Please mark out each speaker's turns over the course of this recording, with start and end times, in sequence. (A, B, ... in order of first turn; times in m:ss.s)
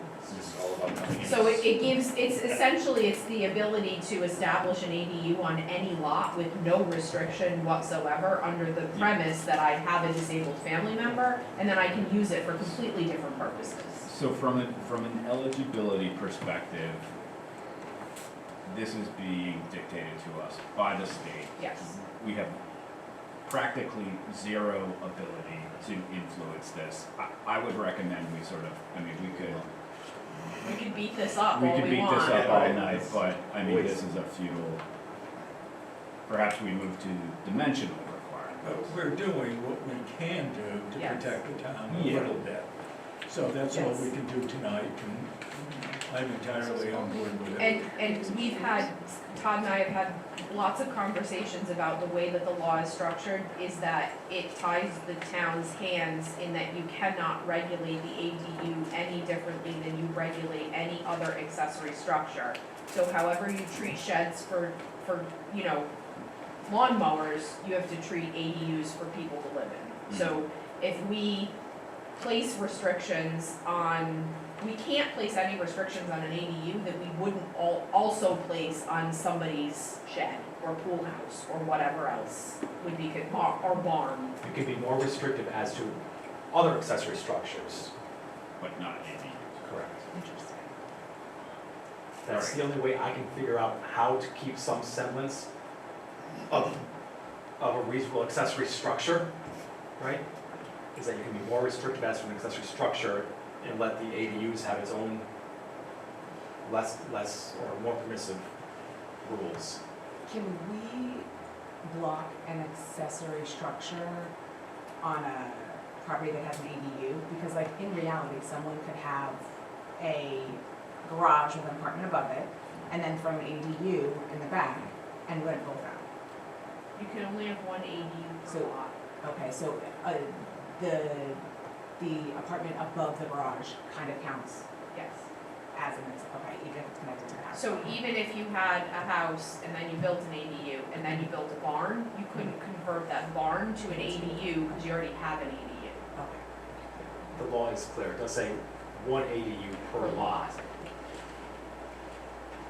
0:00.2-0:00.6 A
0:00.3-0:01.7 B
0:01.2-0:14.1 C
0:08.9-0:09.2 A
0:14.0-0:17.1 A
0:18.6-0:22.6 A
0:21.6-0:21.9 C
0:23.4-0:29.7 A
0:30.6-0:32.5 C
0:31.5-0:34.8 A
0:32.5-0:33.0 B
0:33.6-0:33.9 B
0:36.3-0:38.9 A
0:38.6-0:42.6 D
0:40.9-0:41.4 C
0:41.8-0:42.6 A
0:43.2-0:48.0 D
0:43.7-0:44.1 C
0:47.6-1:05.9 C
1:06.7-1:11.5 C
1:12.2-1:24.3 C
1:24.4-1:26.0 E
1:26.5-1:27.9 E
1:28.6-1:29.7 A
1:29.6-1:30.0 E
1:30.1-1:30.7 F
1:32.2-1:35.5 E
1:32.2-1:32.7 A
1:36.5-1:36.8 E
1:37.6-1:39.3 E
1:40.0-1:40.2 E
1:40.9-1:45.2 E
1:46.6-1:48.4 E
1:49.2-1:49.8 E
1:50.2-1:51.3 F
1:51.8-1:54.3 F
1:55.0-1:59.4 F
2:00.0-2:06.0 F
2:07.0-2:08.9 C
2:08.5-2:11.4 F
2:12.0-2:14.6 F
2:14.9-2:15.2 C
2:15.7-2:18.0 F
2:17.5-2:26.0 C
2:23.9-2:24.5 F
2:26.1-2:26.4 F
2:27.3-2:30.6 E
2:30.0-2:30.6 C